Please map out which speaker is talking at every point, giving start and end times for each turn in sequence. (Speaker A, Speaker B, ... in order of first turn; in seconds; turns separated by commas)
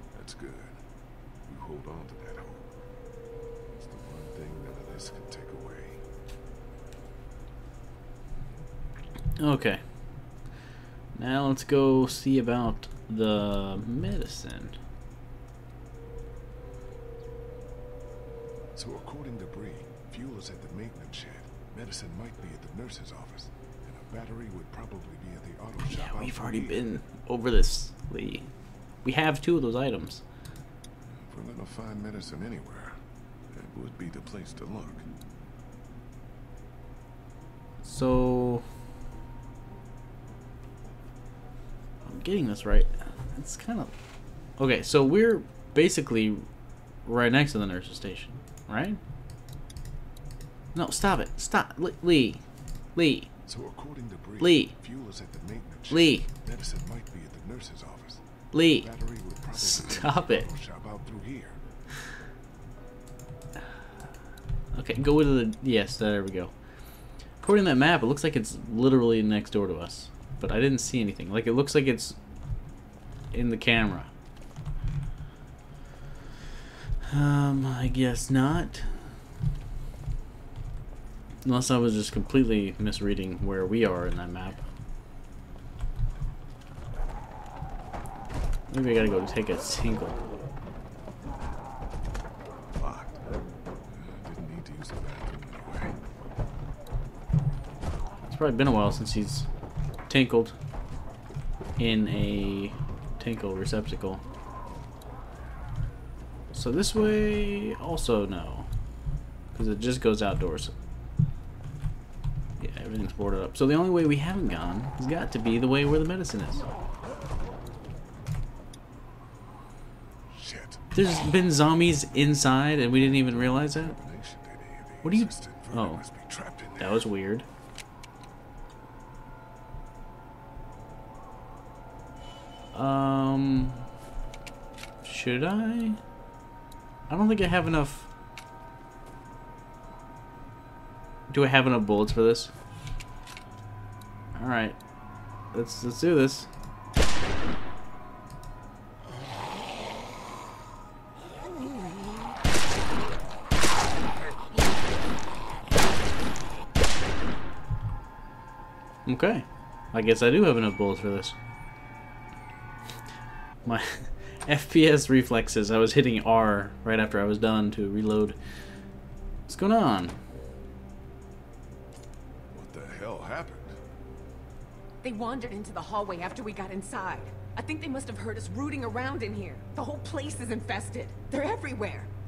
Speaker A: 0.1-0.8, Speaker A: 1.5-2.7, Speaker A: 3.8-6.0, Speaker B: 9.4-9.8, Speaker B: 11.2-14.8, Speaker A: 18.7-26.9, Speaker B: 25.9-28.5, Speaker B: 29.0-30.2, Speaker A: 31.1-33.0, Speaker A: 33.5-35.0, Speaker B: 37.8-38.6, Speaker B: 42.0-43.9, Speaker B: 44.6-46.4, Speaker B: 47.0-49.0, Speaker B: 50.7-52.4, Speaker B: 53.0-53.3, Speaker A: 53.5-58.2, Speaker B: 54.4-54.7, Speaker B: 55.9-56.3, Speaker B: 58.5-58.9, Speaker A: 58.7-61.6, Speaker B: 59.5-60.5, Speaker B: 64.7-66.5, Speaker B: 67.4-72.2, Speaker B: 73.3-74.1, Speaker B: 77.1-79.2, Speaker B: 81.4-84.6, Speaker B: 88.7-90.2, Speaker A: 92.7-93.2, Speaker A: 93.9-95.9, Speaker B: 98.3-99.5, Speaker B: 100.1-100.5, Speaker B: 101.8-104.2, Speaker B: 106.5-108.7, Speaker B: 109.5-110.7, Speaker B: 112.6-116.7, Speaker A: 120.3-120.8, Speaker B: 120.9-124.0, Speaker A: 122.9-127.0, Speaker B: 125.0-126.0, Speaker B: 126.7-127.5, Speaker B: 132.7-133.8, Speaker B: 135.0-136.0, Speaker B: 137.1-138.1, Speaker B: 141.3-142.5, Speaker B: 144.3-144.8, Speaker B: 145.5-146.5, Speaker B: 159.1-161.3, Speaker B: 163.6-168.4, Speaker B: 169.5-170.1, Speaker A: 172.5-173.8, Speaker C: 175.0-182.1